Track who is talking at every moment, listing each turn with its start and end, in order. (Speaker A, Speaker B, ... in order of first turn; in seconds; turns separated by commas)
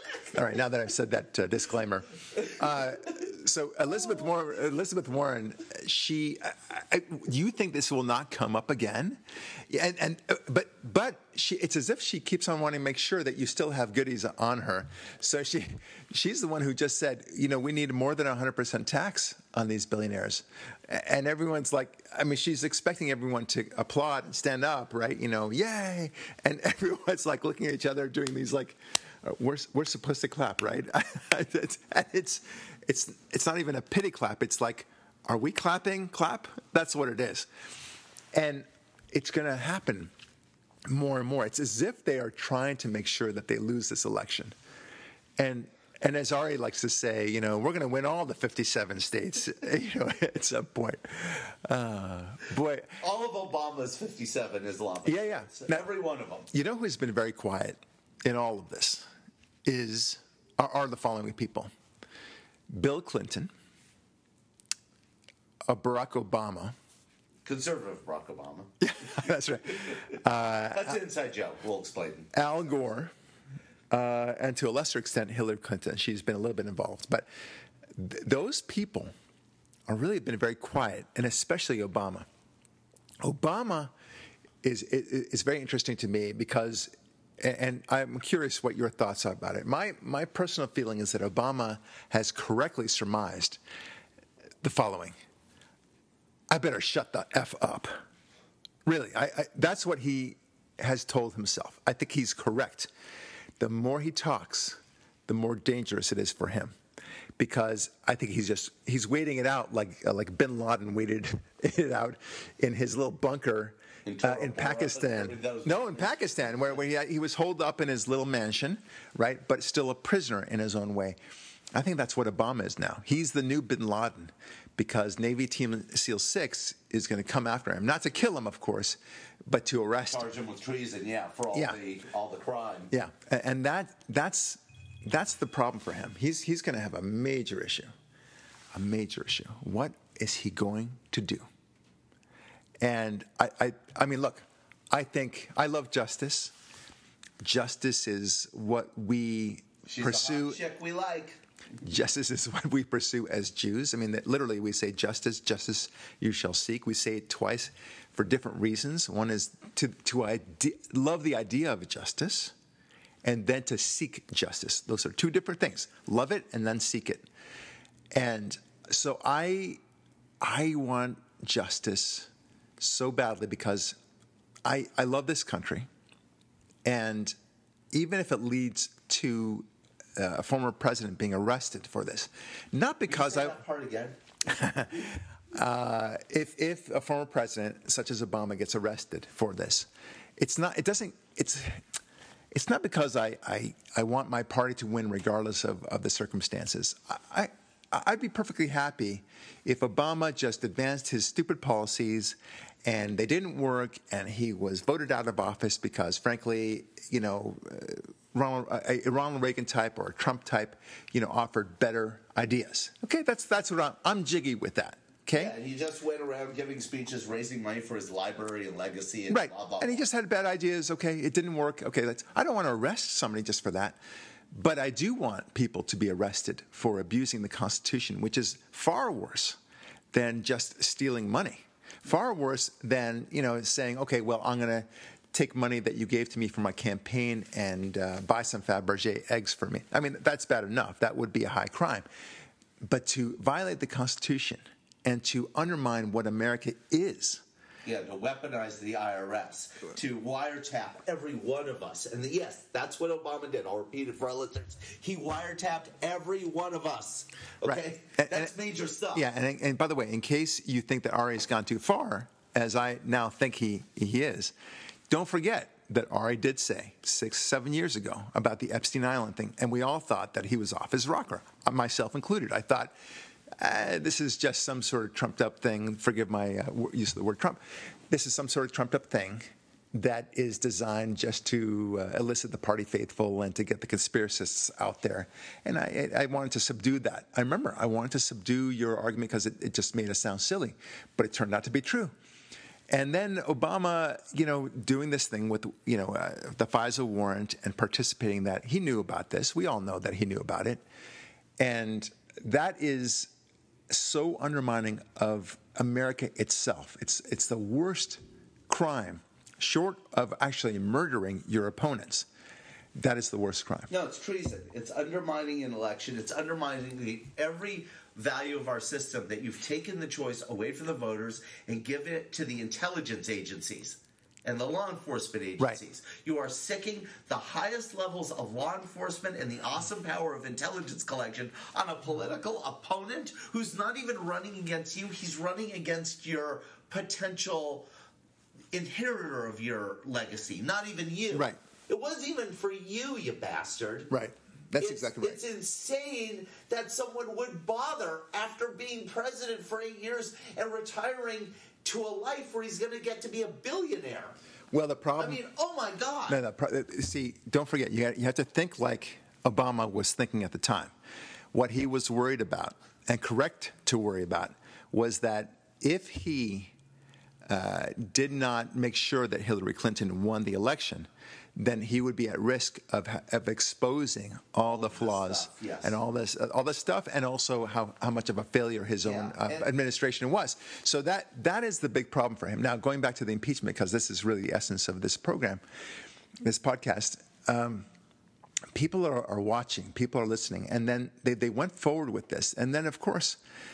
Speaker A: 0.3-37.5, Speaker A: 38.3-40.1, Speaker A: 40.9-44.5, Speaker A: 45.4-53.0, Speaker B: 53.0-56.5, Speaker A: 55.0-55.8, Speaker A: 56.5-59.0, Speaker A: 59.6-61.7, Speaker A: 62.7-63.5, Speaker A: 65.7-66.7, Speaker B: 67.4-69.2, Speaker A: 68.8-71.0, Speaker B: 69.8-70.1, Speaker B: 70.7-72.3, Speaker A: 72.3-73.1, Speaker A: 73.9-77.2, Speaker A: 78.0-79.1, Speaker A: 79.9-82.3, Speaker A: 83.2-83.9, Speaker A: 84.6-93.6, Speaker A: 94.6-95.2, Speaker A: 96.5-97.9, Speaker A: 98.8-102.9, Speaker A: 103.6-106.8, Speaker A: 107.4-121.2, Speaker B: 114.0-116.8, Speaker A: 121.7-130.3, Speaker B: 130.1-132.9, Speaker A: 132.9-137.9, Speaker A: 138.7-141.4, Speaker A: 142.8-146.5, Speaker A: 147.4-150.6, Speaker B: 149.8-151.4, Speaker A: 151.8-162.5, Speaker A: 163.2-167.2, Speaker A: 168.1-169.8, Speaker A: 170.4-172.3, Speaker A: 172.8-174.0, Speaker A: 174.6-175.9, Speaker A: 176.8-177.3, Speaker A: 177.9-183.6, Speaker B: 183.1-184.2, Speaker A: 184.5-191.8, Speaker A: 192.5-215.5, Speaker B: 215.3-220.0, Speaker A: 219.3-224.0, Speaker A: 224.5-229.6, Speaker A: 230.1-242.0, Speaker A: 242.8-247.4, Speaker B: 247.8-259.2, Speaker A: 257.6-258.5, Speaker A: 259.1-264.5, Speaker A: 265.1-272.9, Speaker A: 273.6-292.1, Speaker A: 292.9-300.8, Speaker A: 301.6-303.3, Speaker A: 303.9-312.3, Speaker A: 312.9-313.9, Speaker B: 313.9-337.9, Speaker B: 338.7-344.1, Speaker A: 341.3-341.6, Speaker A: 344.1-345.4, Speaker B: 344.8-354.4, Speaker A: 354.7-355.4, Speaker B: 355.2-356.4, Speaker A: 356.3-360.9, Speaker A: 361.5-366.7, Speaker A: 367.5-385.6, Speaker B: 374.6-375.9, Speaker B: 379.0-379.7, Speaker A: 386.4-387.9, Speaker A: 388.7-393.4